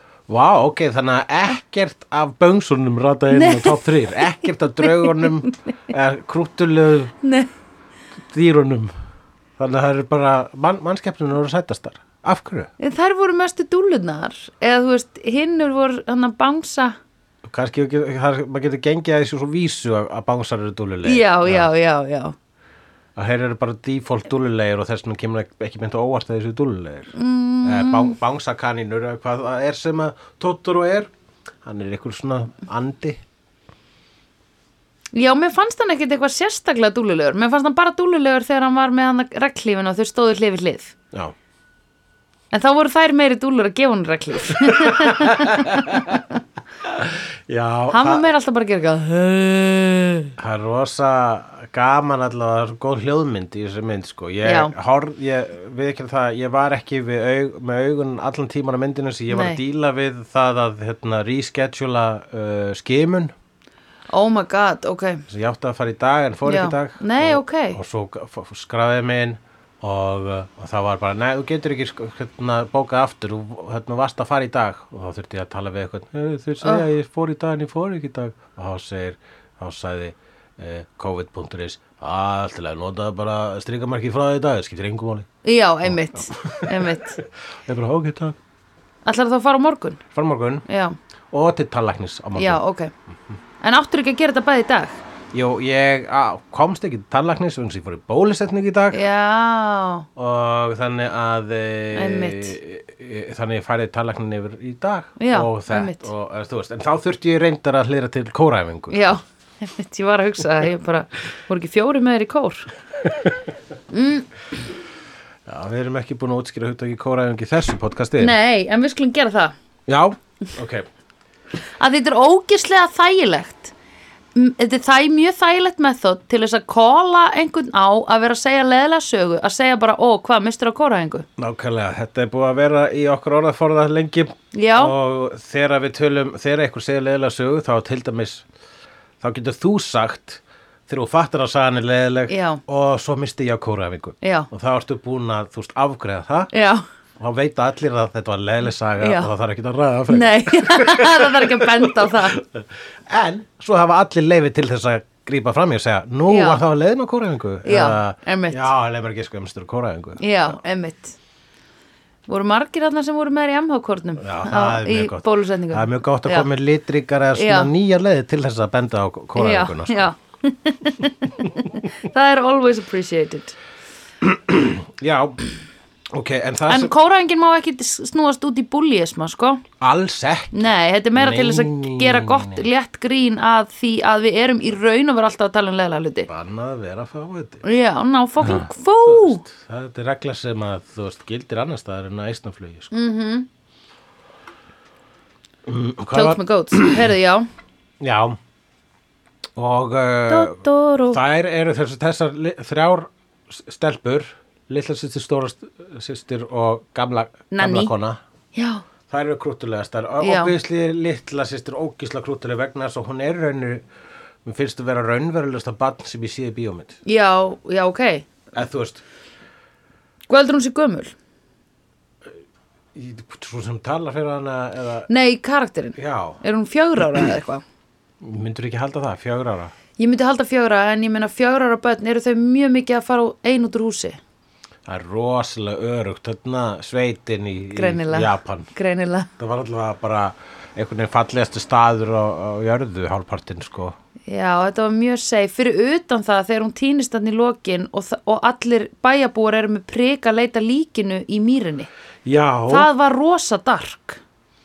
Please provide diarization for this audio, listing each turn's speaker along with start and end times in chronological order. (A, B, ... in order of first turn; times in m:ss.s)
0:00.3-0:07.2 A
0:03.3-0:04.3 B
0:04.8-0:05.5 B
0:07.2-0:07.5 B
0:08.2-0:08.9 A
0:09.6-0:12.7 A
0:12.8-0:17.0 B
0:17.4-0:21.7 A
0:21.0-0:22.4 B
0:23.2-0:31.1 A
0:27.1-0:28.2 B
0:31.6-0:33.2 A
0:35.1-0:40.9 B
0:42.5-0:46.4 B
0:44.5-0:46.2 A
0:46.8-0:48.3 A
0:47.9-0:50.4 B
0:50.4-1:03.3 A
0:54.4-0:54.7 B
0:59.3-0:59.6 B
1:04.1-1:05.2 B
1:05.3-1:25.3 A
1:06.5-1:07.8 B
1:25.4-1:27.2 B
1:25.8-1:28.4 A
1:29.0-1:30.0 B
1:30.1-1:30.6 A
1:30.6-1:31.0 B
1:31.3-1:32.6 A
1:32.4-1:32.9 B
1:33.6-1:35.0 B
1:35.3-1:39.0 A
1:38.9-1:40.1 B
1:40.2-1:49.2 A
1:41.9-1:42.6 B
1:45.2-1:46.1 B
1:48.9-1:52.7 B
1:53.0-1:53.4 A
1:53.9-1:54.3 B
1:55.5-1:58.4 A
1:58.2-1:59.5 B
1:59.9-2:00.9 A
2:01.8-2:03.7 B
2:04.4-2:11.3 B
2:11.4-2:18.5 A
2:14.5-2:14.9 B
2:19.2-2:26.5 A
2:22.3-2:22.6 B
2:24.2-2:24.5 B
2:26.5-2:26.8 B
2:27.2-2:40.6 A
2:29.0-2:29.3 B
2:30.1-2:32.4 B
2:36.3-2:36.6 B
2:37.6-2:38.7 B
2:40.2-2:41.2 B
2:42.3-2:46.5 B
2:44.2-2:50.1 A
2:47.4-2:47.7 B
2:49.4-2:53.6 B
2:54.2-2:55.4 A
2:56.1-2:56.9 A
2:56.7-2:59.6 B
2:59.8-3:02.7 A
3:00.5-3:06.3 B
3:06.3-3:07.6 A
3:07.6-3:09.4 B
3:08.4-3:12.9 A
3:12.9-3:13.5 B
3:15.6-3:17.1 A
3:16.1-3:17.5 B
3:18.0-3:18.4 A
3:19.6-3:28.2 A
3:20.3-3:21.2 B
3:27.5-3:27.9 B
3:28.5-3:28.8 B
3:29.1-3:33.8 A
3:30.2-3:30.5 B
3:34.4-3:37.0 A
3:37.0-3:38.3 B
3:38.5-3:39.0 A
3:40.3-3:41.1 B
3:42.9-3:45.1 A
3:45.1-3:47.6 B
3:46.0-3:46.4 A
3:48.2-3:49.7 A
3:50.0-3:54.2 B
3:54.9-3:58.7 A
3:57.7-3:59.3 B
3:59.4-4:04.0 A
4:04.3-4:11.9 B
4:12.2-4:12.9 A
4:12.7-4:14.2 B